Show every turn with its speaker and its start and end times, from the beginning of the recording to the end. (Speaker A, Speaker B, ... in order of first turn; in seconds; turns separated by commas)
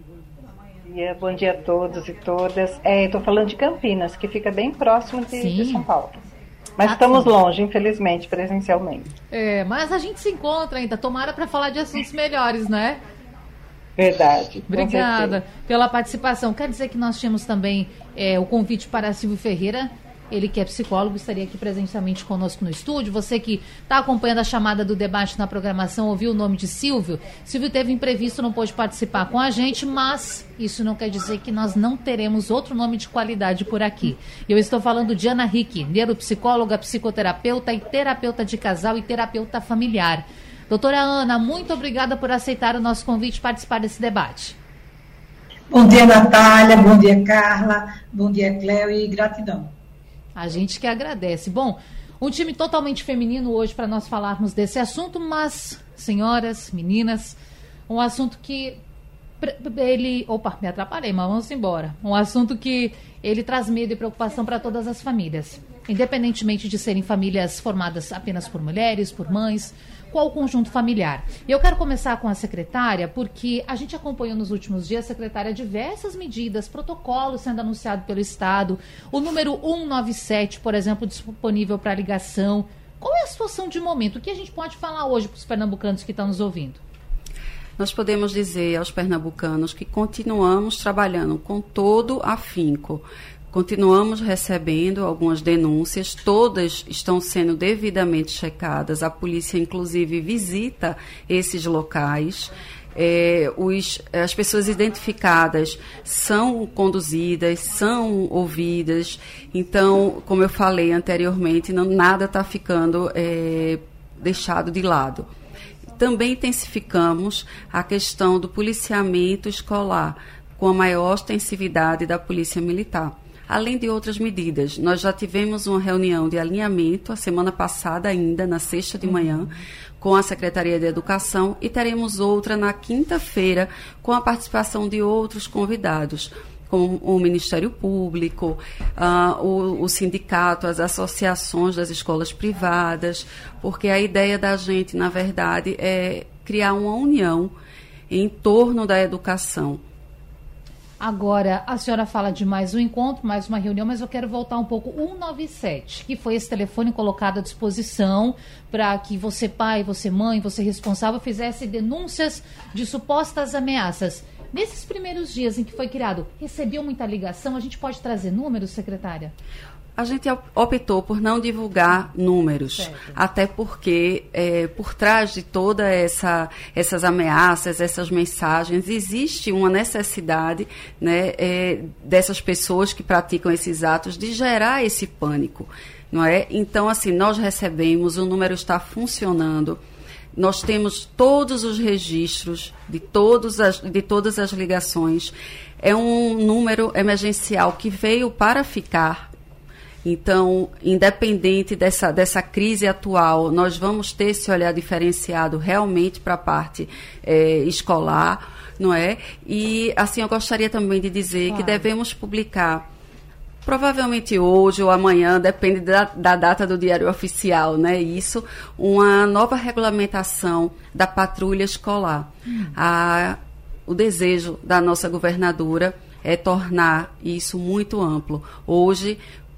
Speaker A: 0.8-6.2, Speaker B: 5.3-5.8, Speaker A: 6.8-9.1, Speaker B: 6.8-7.3, Speaker B: 9.3-13.0, Speaker A: 14.0-15.4, Speaker B: 14.7-44.6, Speaker C: 45.7-49.7, Speaker B: 50.4-58.8, Speaker B: 59.4-86.8, Speaker D: 87.8-115.3, Speaker D: 116.0-147.5, Speaker B: 129.1-129.4, Speaker D: 148.1-149.8, Speaker B: 151.0-169.3, Speaker D: 170.0-189.8, Speaker B: 172.8-173.2, Speaker D: 190.3-199.3, Speaker D: 200.0-212.8, Speaker B: 211.5-211.8, Speaker D: 213.6-229.2, Speaker B: 222.5-222.7